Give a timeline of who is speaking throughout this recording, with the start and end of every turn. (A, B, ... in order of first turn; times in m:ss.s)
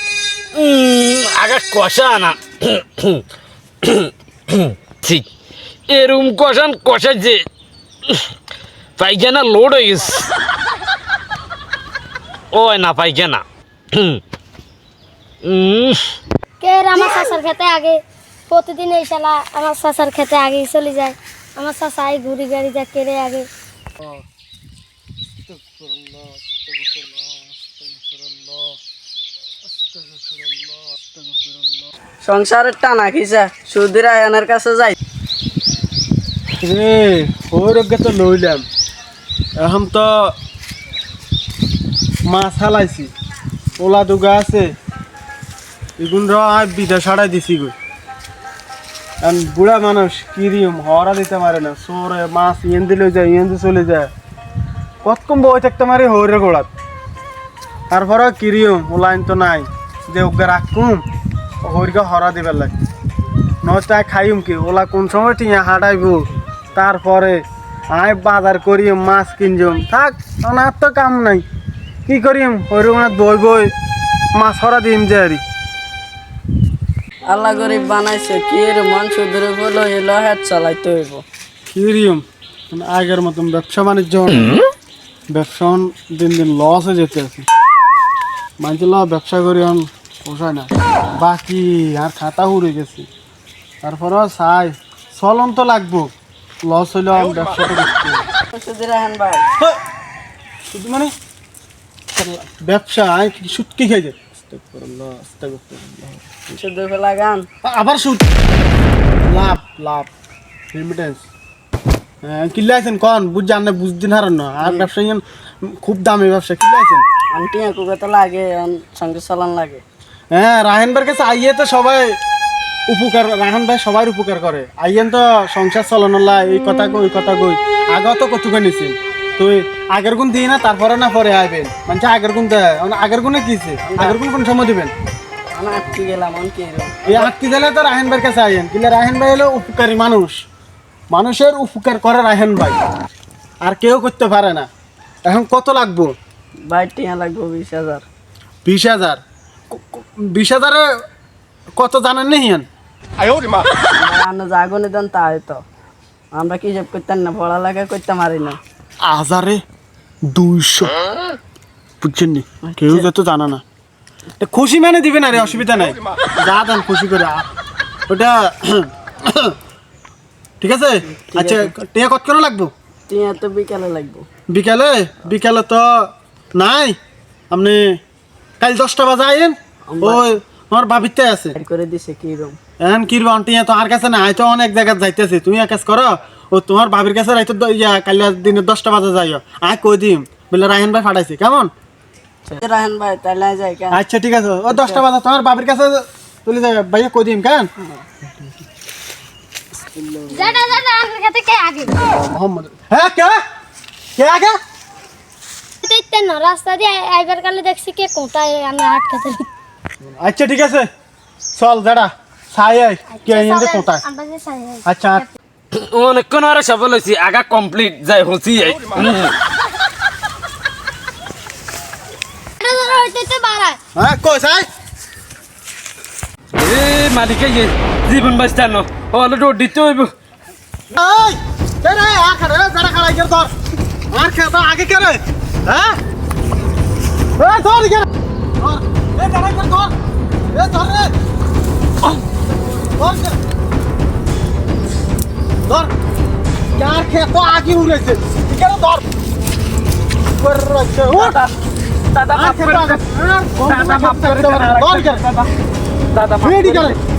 0:00.5-0:03.2 A
0:03.8-0:05.2 A
0:05.9-0:07.4 A
0:09.0-0:10.2 A
0:12.5-0:13.4 A
0:13.9-0:14.2 A
0:15.4-0:16.1 A
0:16.6-0:18.0 B
0:18.5-0:23.4 B
0:25.7-0:26.0 C
0:26.7-0:27.1 C
0:32.2-0:35.0 D
0:36.6-0:38.6 C
0:39.6-0:40.3 C
0:42.2-0:43.1 C
0:43.8-0:44.7 C
0:46.0-0:47.7 C
0:49.2-0:54.1 C
0:55.0-0:56.7 C
0:57.9-1:01.0 C
1:01.6-1:02.7 C
1:03.6-1:11.4 C
1:12.0-1:13.7 C
1:14.3-1:15.4 C
1:17.3-1:21.2 D
1:21.7-1:24.6 C
1:25.3-1:27.4 C
1:28.6-1:33.1 C
1:33.8-1:36.1 C
1:36.6-1:38.3 C
1:38.5-1:39.5 D
1:40.7-1:41.1 C
1:42.1-1:46.5 C
1:46.6-1:47.5 D
1:47.6-1:48.2 C
1:49.2-1:50.1 C
1:50.7-1:51.2 C
1:52.2-1:57.0 C
1:54.6-1:54.9 D
1:57.3-1:59.8 D
2:00.3-2:02.1 C
2:02.9-2:14.9 C
2:13.8-2:14.2 D
2:15.5-2:17.3 D
2:17.0-2:20.4 C
2:21.1-2:22.8 C
2:23.6-2:24.7 C
2:25.3-2:26.1 C
2:26.7-2:28.0 D
2:28.6-2:30.8 C
2:31.8-2:32.6 C
2:34.0-2:35.6 D
2:36.3-2:38.6 D
2:39.0-2:39.6 C
2:40.3-2:40.9 C
2:42.0-2:43.6 C
2:42.6-2:43.1 D
2:44.4-2:47.4 C
2:48.1-2:49.6 C
2:50.6-2:52.7 C
2:51.0-2:51.8 D
2:53.1-2:54.3 D
2:54.5-2:57.0 C
2:57.5-2:58.0 C
2:58.6-3:01.6 C
2:59.9-3:00.2 D
3:01.5-3:02.6 D
3:02.8-3:11.7 C
3:12.4-3:14.0 D
3:13.9-3:17.7 C
3:14.7-3:15.0 D
3:17.8-3:18.1 D
3:20.3-3:22.0 B
3:22.0-3:23.4 C
3:24.2-3:24.6 C
3:25.8-3:29.4 B
3:30.0-3:30.9 C
3:31.5-3:34.0 C
3:33.1-3:35.2 B
3:34.8-3:35.2 C
3:35.8-3:39.3 A
3:42.6-3:43.8 B
3:44.0-3:44.7 C
3:46.5-3:50.1 A
3:50.9-3:53.5 C
3:54.1-3:55.9 C
3:57.4-3:58.1 C
3:58.6-3:59.9 C
4:00.5-4:01.1 C
4:02.8-4:03.4 C
4:05.6-4:05.9 C
4:06.7-4:09.0 C
4:10.4-4:11.4 C
4:11.1-4:11.5 A
4:12.1-4:13.0 A
4:12.3-4:15.2 C
4:13.6-4:15.5 A
4:16.1-4:17.0 A
4:16.4-4:17.0 C